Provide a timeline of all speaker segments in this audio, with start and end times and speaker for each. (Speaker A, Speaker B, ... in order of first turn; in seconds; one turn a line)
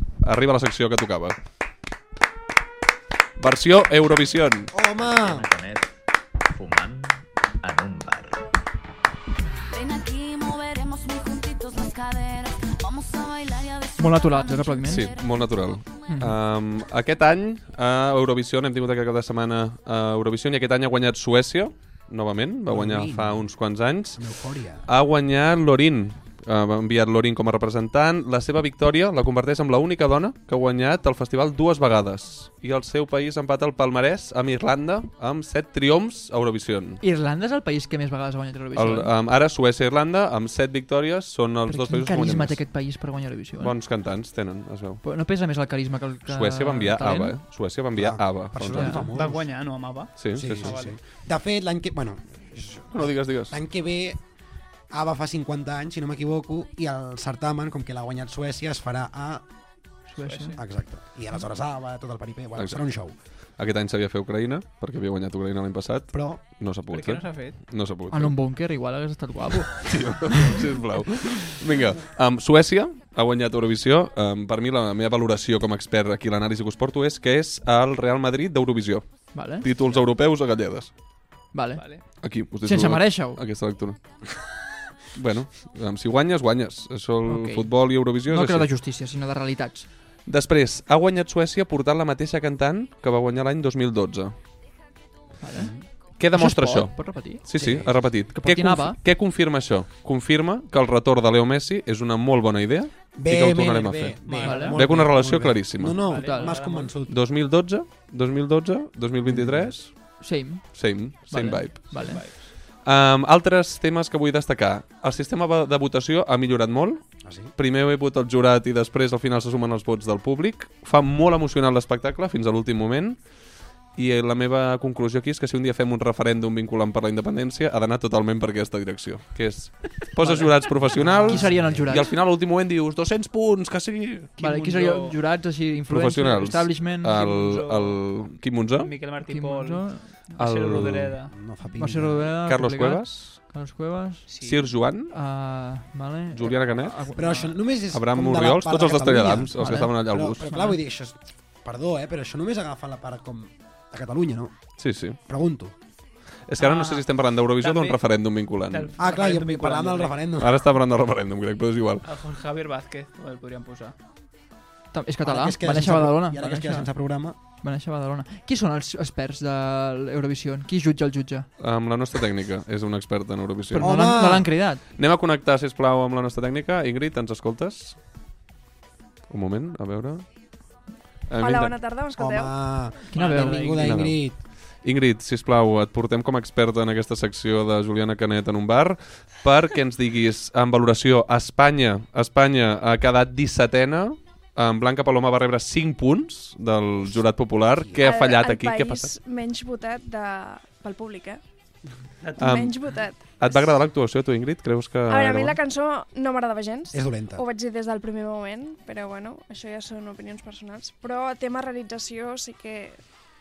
Speaker A: 0.2-1.4
Speaker A: 3.4-4.7
Speaker B: 4.7-5.5
Speaker C: 4.9-5.9
Speaker C: 6.5-8.4
Speaker D: 9.7-16.2
Speaker E: 14.0-15.1
Speaker A: 14.9-24.2
Speaker E: 16.1-16.3
Speaker B: 22.7-23.5
Speaker B: 24.2-24.9
Speaker A: 24.9-37.0
Speaker E: 37.0-39.1
Speaker A: 38.7-42.6
Speaker E: 41.7-43.7
Speaker A: 43.6-45.0
Speaker E: 45.0-47.4
Speaker A: 46.3-49.1
Speaker B: 48.0-49.5
Speaker F: 48.7-51.0
Speaker A: 50.2-50.8
Speaker B: 50.2-54.2
Speaker A: 52.9-53.6
Speaker B: 54.9-59.5
Speaker E: 60.1-60.6
Speaker F: 60.2-60.6
Speaker B: 60.6-63.1
Speaker A: 63.5-68.3
Speaker B: 66.1-66.4
Speaker F: 66.9-67.6
Speaker E: 68.1-70.4
Speaker A: 69.8-80.9
Speaker E: 79.3-79.7
Speaker E: 81.5-83.4
Speaker F: 81.8-82.0
Speaker A: 82.2-84.0
Speaker A: 85.1-88.7
Speaker E: 87.3-89.9
Speaker A: 90.3-94.3
Speaker E: 95.4-95.7
Speaker B: 95.5-95.9
Speaker A: 96.2-106.0
Speaker E: 96.3-97.5
Speaker B: 97.5-98.1
Speaker E: 98.3-99.0
Speaker B: 103.1-107.1
Speaker F: 104.3-104.8
Speaker E: 104.4-104.8
Speaker F: 106.0-106.9
Speaker E: 106.2-106.6
Speaker A: 107.1-117.0
Speaker B: 109.3-109.7
Speaker E: 110.2-112.2
Speaker F: 111.9-112.5
Speaker B: 117.2-117.5
Speaker A: 117.6-123.2
Speaker A: 124.0-134.3
Speaker E: 130.2-132.1
Speaker B: 131.0-132.0
Speaker F: 134.4-135.2
Speaker E: 134.4-137.3
Speaker A: 135.9-138.9
Speaker F: 137.2-138.0
Speaker F: 138.8-141.3
Speaker E: 139.2-140.4
Speaker A: 140.4-141.2
Speaker B: 141.3-142.3
Speaker E: 141.8-144.3
Speaker A: 142.4-143.2
Speaker F: 144.3-144.7
Speaker A: 144.4-145.1
Speaker E: 145.1-147.5
Speaker A: 146.3-147.0
Speaker B: 147.1-154.6
Speaker A: 147.9-150.5
Speaker E: 149.6-149.9
Speaker E: 150.5-150.8
Speaker A: 154.8-155.2
Speaker B: 155.2-155.8
Speaker A: 156.5-158.9
Speaker F: 156.6-157.1
Speaker F: 157.6-158.0
Speaker F: 158.7-160.2
Speaker B: 159.0-160.6
Speaker A: 160.4-162.1
Speaker F: 162.0-163.9
Speaker E: 164.9-166.9
Speaker B: 165.2-167.4
Speaker E: 167.6-171.5
Speaker A: 171.6-173.9
Speaker E: 173.7-174.8
Speaker B: 173.8-174.5
Speaker A: 175.0-178.0
Speaker A: 179.3-180.3
Speaker A: 181.3-181.8
Speaker G: 181.3-182.5
Speaker B: 182.2-184.4
Speaker F: 183.1-184.0
Speaker E: 183.1-183.7
Speaker A: 183.8-184.2
Speaker A: 184.8-199.2
Speaker B: 197.7-198.0
Speaker G: 198.0-201.4
Speaker G: 202.4-203.6
Speaker A: 202.4-205.6
Speaker G: 205.1-213.0
Speaker B: 206.9-207.4